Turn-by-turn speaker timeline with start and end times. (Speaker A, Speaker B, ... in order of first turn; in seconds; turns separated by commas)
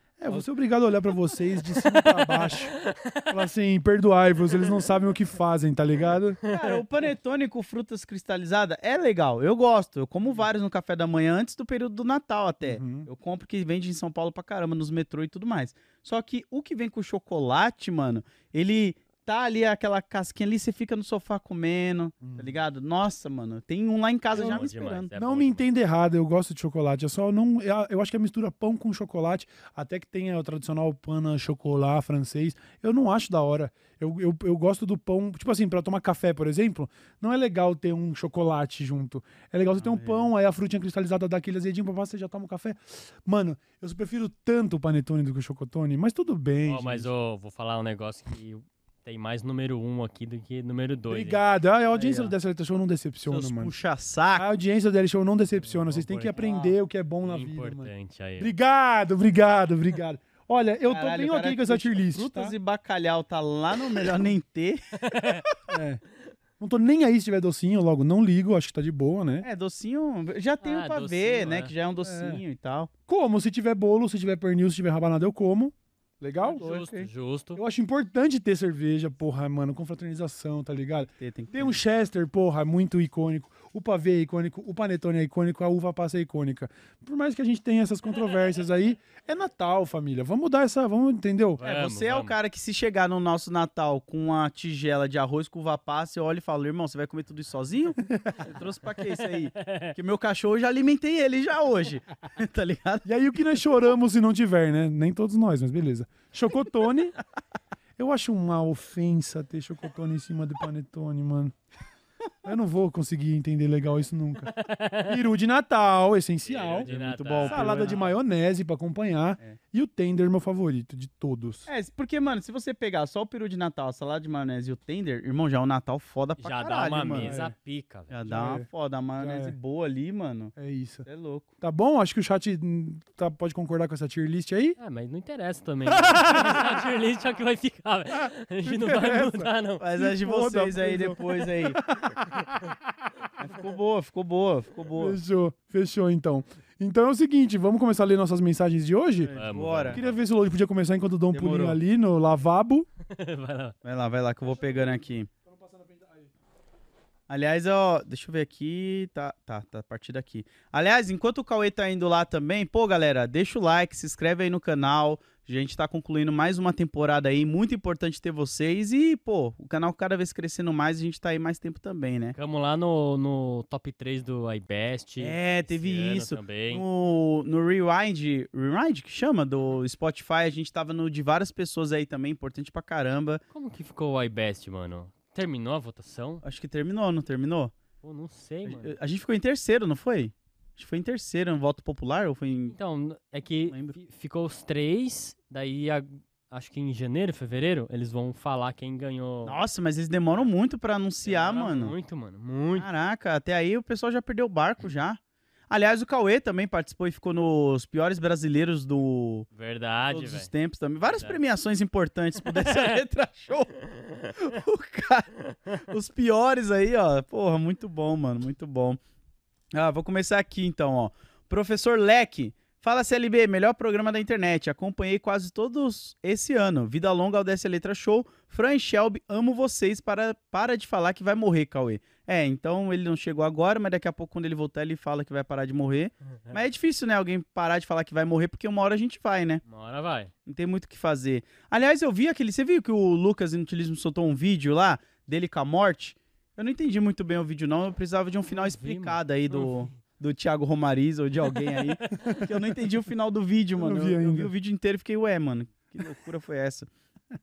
Speaker A: 0.2-2.7, Speaker B: 1.7-3.3, Speaker A: 3.3-6.4, Speaker B: 6.4-6.8, Speaker C: 6.5-25.1, Speaker A: 12.6-13.1, Speaker A: 22.2-22.6, Speaker B: 24.3-25.6, Speaker A: 24.3-47.1, Speaker C: 39.8-40.3, Speaker B: 46.6-51.4, Speaker A: 51.1-53.7, Speaker C: 51.9-52.3, Speaker C: 53.2-54.5, Speaker A: 54.4-62.5, Speaker B: 55.6-56.4, Speaker C: 56.3-56.8, Speaker B: 57.2-58.5, Speaker C: 60.9-65.4, Speaker B: 65.0-65.4, Speaker A: 65.7-66.0, Speaker A: 66.6-69.5, Speaker C: 69.4-72.9, Speaker B: 70.6-71.7, Speaker A: 72.0-72.4, Speaker A: 73.1-76.6, Speaker C: 76.4-77.1, Speaker B: 76.5-77.6, Speaker A: 77.5-91.6, Speaker C: 81.2-81.8, Speaker B: 91.6-92.3, Speaker C: 91.6-103.0, Speaker A: 98.0-98.4, Speaker B: 99.2-99.9, Speaker A: 103.0-107.2, Speaker A: 108.0-111.5, Speaker A: 112.4-114.5, Speaker B: 114.5-115.2, Speaker A: 115.0-121.7, Speaker B: 116.4-118.2, Speaker C: 117.3-117.9, Speaker C: 121.7-127.3, Speaker B: 126.4-128.1, Speaker A: 127.2-127.5, Speaker C: 128.1-130.5, Speaker A: 128.2-129.5, Speaker A: 130.6-131.1, Speaker C: 131.0-131.5, Speaker A: 131.6-134.8, Speaker B: 134.8-139.8, Speaker A: 135.9-136.8, Speaker A: 138.6-142.6, Speaker C: 139.8-141.8, Speaker C: 143.4-145.2, Speaker A: 144.9-149.3, Speaker C: 149.2-150.0, Speaker B: 149.3-150.2, Speaker A: 149.9-152.9, Speaker C: 151.3-151.8, Speaker B: 153.1-153.8, Speaker C: 153.8-155.3, Speaker A: 154.4-156.3, Speaker C: 157.3-172.3, Speaker B: 172.3-176.8, Speaker C: 175.2-183.4, Speaker B: 183.5-186.4, Speaker C: 186.4-187.7, Speaker B: 188.0-188.9, Speaker C: 188.6-192.7, Speaker B: 192.7-199.6, Speaker C: 193.7-193.9, Speaker C: 199.4-201.9, Speaker B: 201.2-202.9, Speaker C: 202.8-205.2, Speaker C: 205.7-209.5, Speaker B: 209.5-210.5, Speaker C: 210.1-213.7, Speaker B: 211.1-211.4, Speaker B: 212.5-213.0, Speaker B: 213.9-214.4, Speaker C: 214.4-219.0, Speaker C: 219.7-239.6, Speaker B: 239.7-240.3, Speaker C: 240.5-256.9, Speaker B: 248.5-249.9, Speaker B: 251.5-252.4, Speaker A: 253.8-254.5